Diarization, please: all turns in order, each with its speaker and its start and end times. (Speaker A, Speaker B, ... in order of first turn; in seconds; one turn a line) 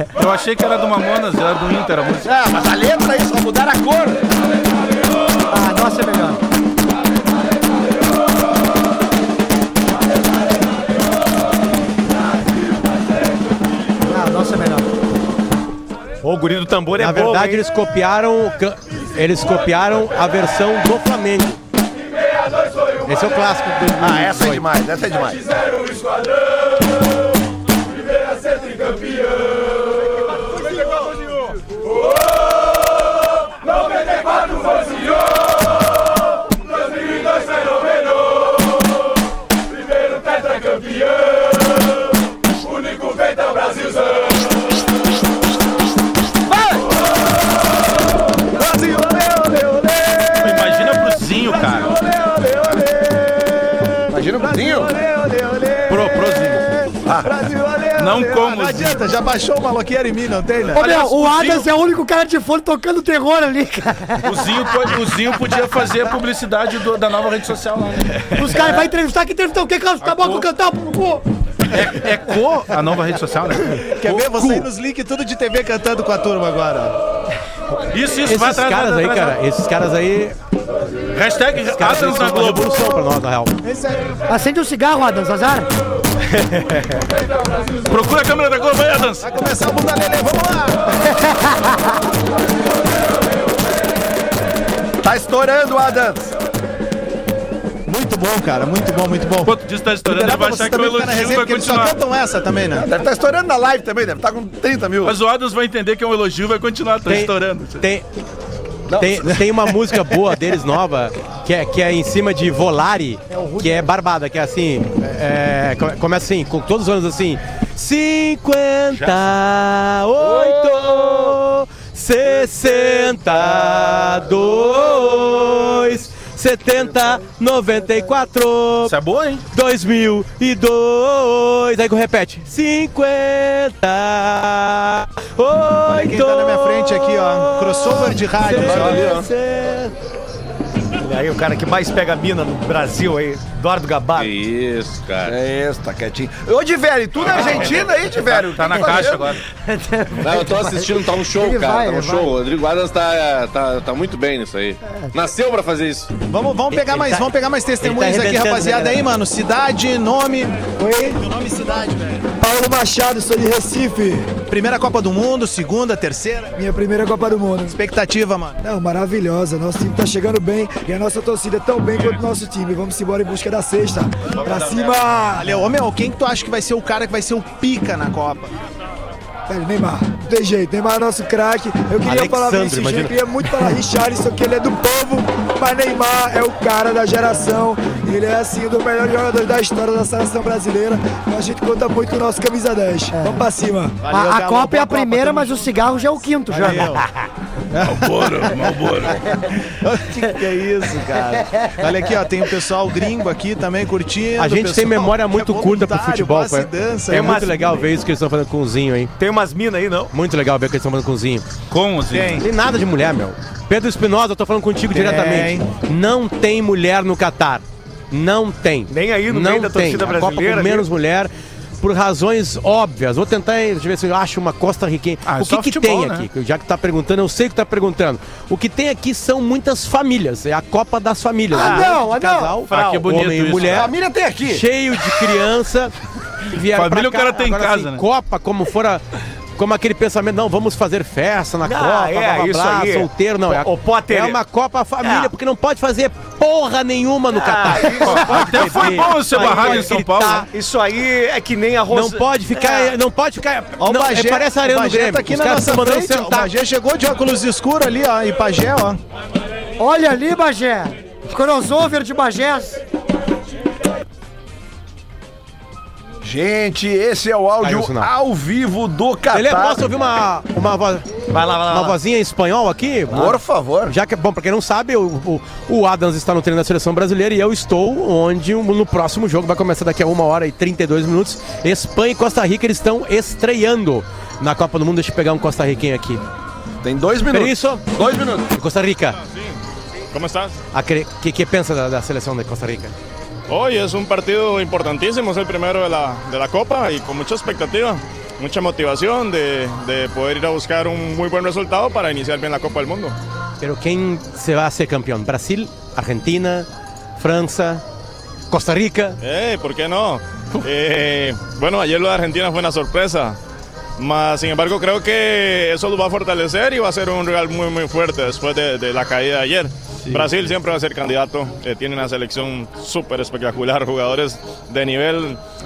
Speaker A: 0.1-2.3
Speaker B: 2.2-4.2
Speaker C: 5.5-6.4
Speaker C: 14.1-14.9
Speaker D: 16.2-17.6
Speaker E: 17.0-21.6
Speaker E: 23.1-24.6
Speaker B: 24.0-25.4
Speaker F: 48.6-50.2
Speaker A: 50.4-51.9
Speaker F: 51.9-53.9
Speaker B: 54.1-54.9
Speaker F: 54.4-60.8
Speaker A: 55.9-56.6
Speaker A: 58.0-59.0
Speaker C: 60.7-65.0
Speaker A: 60.8-61.7
Speaker A: 64.2-68.7
Speaker C: 68.3-71.2
Speaker A: 70.0-70.5
Speaker A: 71.7-74.7
Speaker F: 73.9-77.0
Speaker A: 77.9-79.4
Speaker E: 78.2-80.3
Speaker A: 81.1-82.9
Speaker E: 81.7-83.5
Speaker F: 83.6-84.2
Speaker C: 84.3-85.7
Speaker A: 87.9-89.2
Speaker F: 89.2-90.9
Speaker B: 95.0-96.3
Speaker F: 97.8-102.9
Speaker A: 99.4-102.0
Speaker B: 102.7-105.2
Speaker A: 105.0-107.9
Speaker E: 107.0-108.0
Speaker B: 108.9-109.4
Speaker E: 109.0-128.9
Speaker C: 113.3-113.8
Speaker A: 118.9-119.3
Speaker B: 120.2-121.4
Speaker A: 128.8-129.4
Speaker E: 129.5-139.9
Speaker F: 135.8-139.1
Speaker B: 138.6-139.3
Speaker D: 141.0-144.4
Speaker G: 144.2-145.4
Speaker B: 145.2-149.4
Speaker A: 147.2-149.4
Speaker C: 149.7-152.4
Speaker G: 150.2-156.1
Speaker F: 156.3-160.6
Speaker E: 156.7-157.2
Speaker E: 157.8-159.0
Speaker H: 160.8-161.2
Speaker F: 161.1-162.3
Speaker H: 162.4-164.3
Speaker F: 164.5-166.5
Speaker H: 166.6-167.8
Speaker F: 167.7-168.6
Speaker H: 168.6-175.5
Speaker A: 174.4-174.9
Speaker F: 175.4-178.5
Speaker H: 179.5-194.0
Speaker E: 182.0-183.5
Speaker C: 193.2-193.4
Speaker F: 194.0-195.8
Speaker C: 194.1-197.0
Speaker F: 196.5-197.1
Speaker F: 197.7-199.1
Speaker A: 197.8-199.2
Speaker F: 199.6-207.4
Speaker E: 204.4-209.1
Speaker D: 207.1-207.8
Speaker D: 209.2-210.1
Speaker E: 210.1-211.5
Speaker A: 211.7-212.4
Speaker E: 212.4-233.9
Speaker F: 214.9-215.7
Speaker D: 218.9-220.9
Speaker A: 225.2-226.3
Speaker C: 231.5-232.6
Speaker D: 231.6-231.9
Speaker A: 232.7-233.9
Speaker D: 232.8-233.0
Speaker B: 233.7-234.6
Speaker E: 234.4-235.9
Speaker E: 236.5-239.0
Speaker A: 236.7-238.0
Speaker E: 239.6-250.5
Speaker D: 241.6-244.4
Speaker D: 245.0-245.3
Speaker D: 247.3-249.9
Speaker A: 248.0-250.5
Speaker D: 250.5-252.9
Speaker E: 251.9-256.5
Speaker F: 253.8-259.0
Speaker C: 259.8-262.8
Speaker B: 266.2-269.8
Speaker E: 267.6-268.1
Speaker E: 269.3-271.1
Speaker D: 271.3-271.9
Speaker E: 271.7-286.2
Speaker B: 273.1-273.9
Speaker B: 286.8-288.5
Speaker E: 287.3-287.9
Speaker E: 288.5-289.2
Speaker I: 289.2-289.6
Speaker I: 290.1-290.6
Speaker E: 290.7-292.9
Speaker I: 293.5-303.1
Speaker E: 303.6-306.7
Speaker E: 307.2-307.8
Speaker E: 308.5-309.2
Speaker I: 309.2-313.4
Speaker I: 314.0-325.4
Speaker A: 320.0-320.4